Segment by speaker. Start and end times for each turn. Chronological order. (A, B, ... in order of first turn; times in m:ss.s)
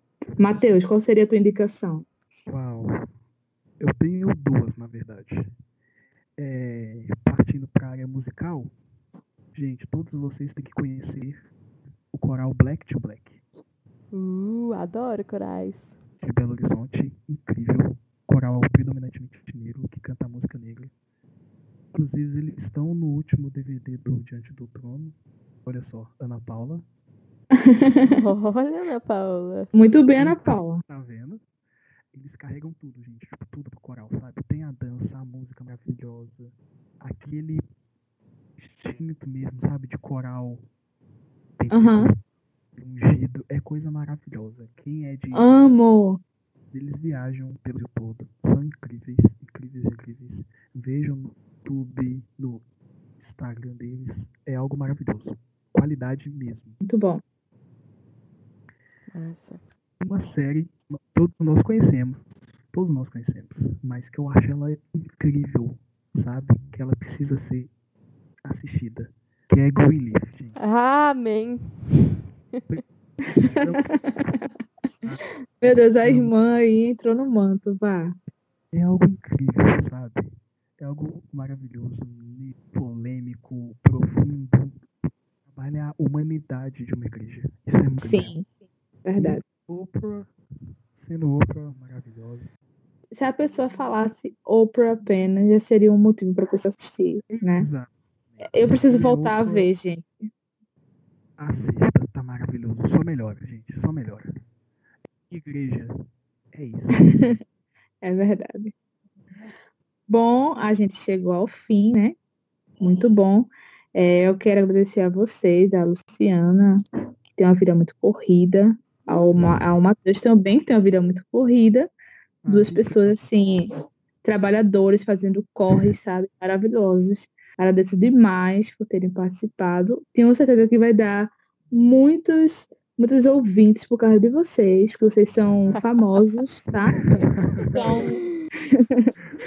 0:00.4-0:02.1 A
0:02.5-0:03.1 B
0:03.8-0:05.5 B
0:06.4-0:08.7 B
0:09.5-0:11.5 B
0:12.1-0:13.4 B
0:14.1-0:15.9 C
0:16.2-0:20.9 B
0:21.9-0:25.1 B
0:25.6-0:26.8 B
0:27.6-0:28.2 A
0:28.1-0:29.7 C
0:29.7-0:30.8 A
0:30.2-0:31.4 B
0:32.1-0:37.6 B
0:38.6-0:40.6 B
0:41.6-0:42.2 B
0:41.7-0:42.1 A
0:42.8-0:45.5 B
0:45.3-0:46.2 A
0:46.7-0:52.6 B
0:53.2-0:56.8 B
0:56.8-0:57.2 A
0:59.1-0:59.6 C
1:00.0-1:07.7 B
1:08.4-1:10.6 B
1:10.6-1:12.6 C
1:12.7-1:14.5 B
1:13.3-1:14.4 A
1:15.6-1:18.2 A
1:16.0-1:16.3 B
1:18.7-1:28.3 B
1:28.0-1:28.5 A
1:29.0-1:29.4 A
1:29.2-1:30.3 B
1:31.0-1:32.5 B
1:33.2-1:37.7 A
1:37.3-1:39.7 B
1:38.4-1:40.1 A
1:41.4-1:44.3 B
1:45.3-1:46.0 B
1:46.5-1:47.4 B
1:47.0-1:47.4 A
1:48.0-1:48.7 A
1:50.1-1:52.2 A
1:52.8-1:56.8 A
1:57.4-2:01.9 A
1:59.1-1:59.5 C
2:02.4-2:03.3 B
2:02.5-2:03.7 A
2:04.2-2:18.2 A
2:15.7-2:16.2 C
2:16.9-2:18.1 B
2:17.1-2:18.3 C